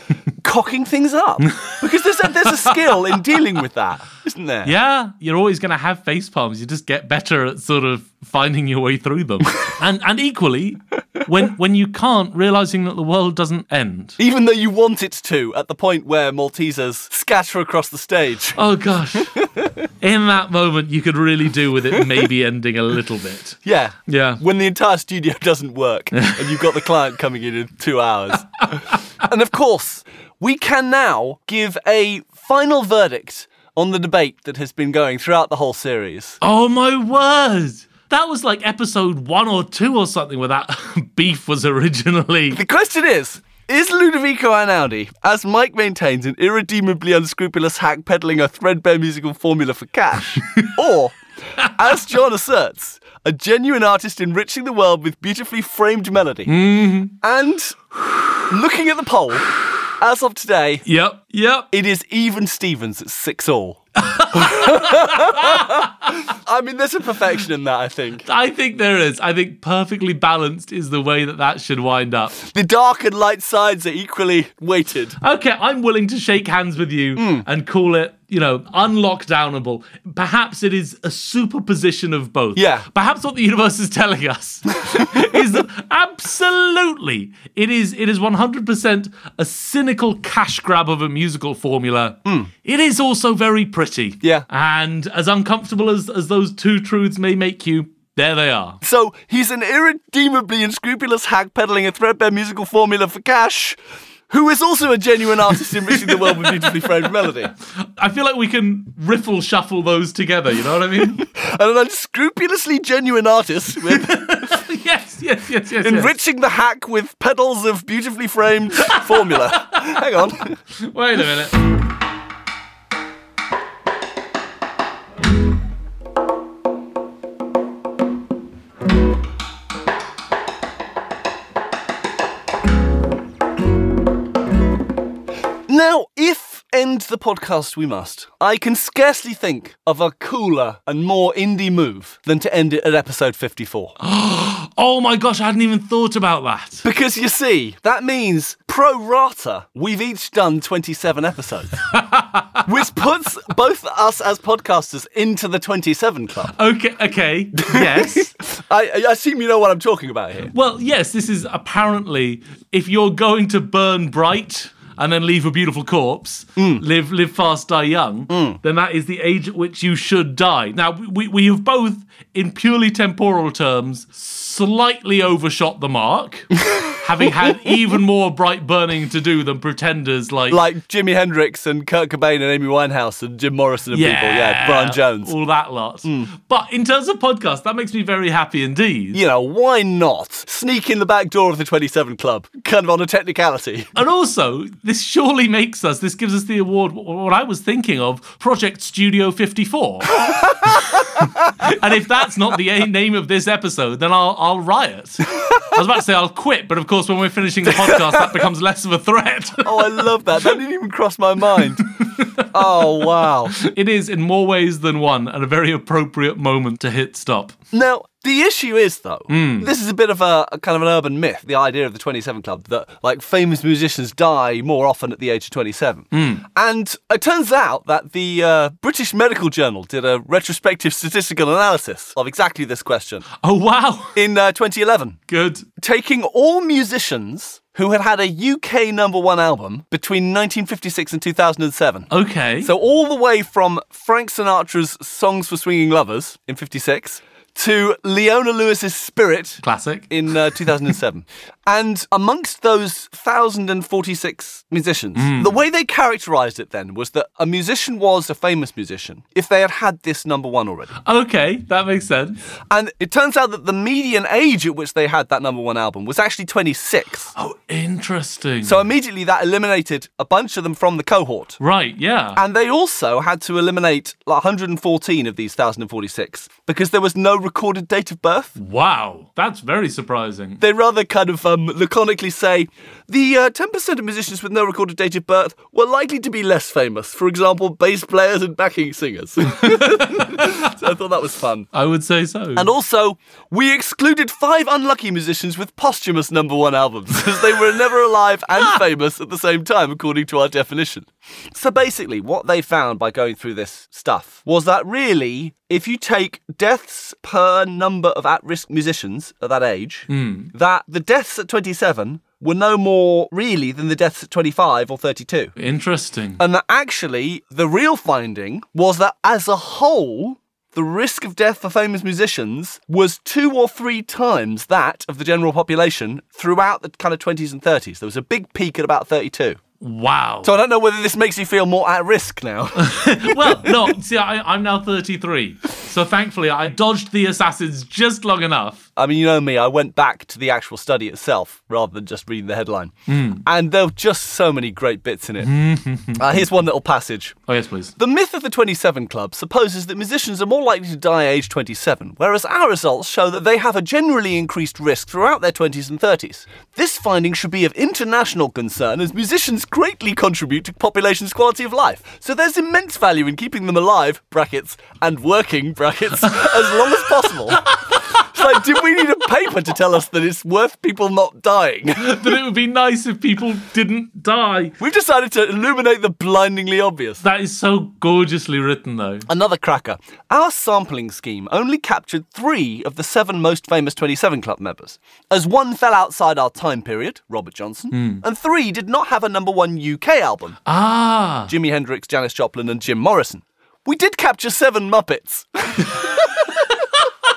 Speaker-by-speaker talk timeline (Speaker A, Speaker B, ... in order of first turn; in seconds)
Speaker A: 0.4-4.7, 14.2-18.6, 19.4-19.7, 23.6-36.4, 42.5-56.5, 57.2-60.8, 61.7-68.2, 72.4-75.2, 77.2-77.5, 82.5-82.9, 94.2-94.5, 98.8-103.8, 104.3-107.5, 111.1-114.5, 115.8-120.6, 135.7-143.9, 146.8-151.8, 152.6-156.5, 157.6-160.5, 166.6-166.8, 168.3-168.6, 176.7-176.9, 180.5-185.3, 186.0-186.3, 189.1-193.9, 200.2-201.2, 207.7-208.3, 209.6-213.6, 217.7-233.2, 234.1-235.2, 235.8-242.1, 242.6-260.9, 262.7-267.3, 268.6-271.6, 272.4-278.6, 280.6-291.7, 292.6-315.5, 316.4-329.6, 330.4-333.9, 338.9-345.5, 346.1-347.4, 348.0-372.3, 374.8-377.2, 379.3-390.6, 391.5-396.7
Speaker B: 1.4-1.8, 2.4-2.8, 4.6-14.2, 18.6-19.5, 20.0-24.4, 26.1-26.6, 36.4-42.6, 56.5-57.1, 60.9-61.7, 64.0-66.2, 68.2-72.4, 75.2-98.8, 105.9-107.2, 107.8-111.2, 113.8-116.1, 118.8-120.0, 120.7-121.6, 144.0-146.8, 151.9-152.7, 156.5-158.3, 160.5-180.6, 183.9-189.2, 193.9-210.1, 211.8-217.6, 219.3-219.7, 226.1-226.4, 233.4-234.2, 235.3-235.7, 242.1-242.7, 249.6-250.3, 255.2-255.6, 261.0-262.4, 267.3-268.8, 271.6-272.4, 278.6-280.6, 289.4-290.7, 291.7-292.7, 310.1-310.5, 315.6-316.4, 329.8-330.5, 332.8-338.8, 343.1-343.4, 345.4-346.4, 347.5-347.9, 367.6-368.2, 371.9-374.7, 377.2-379.3, 387.9-388.2, 390.6-391.5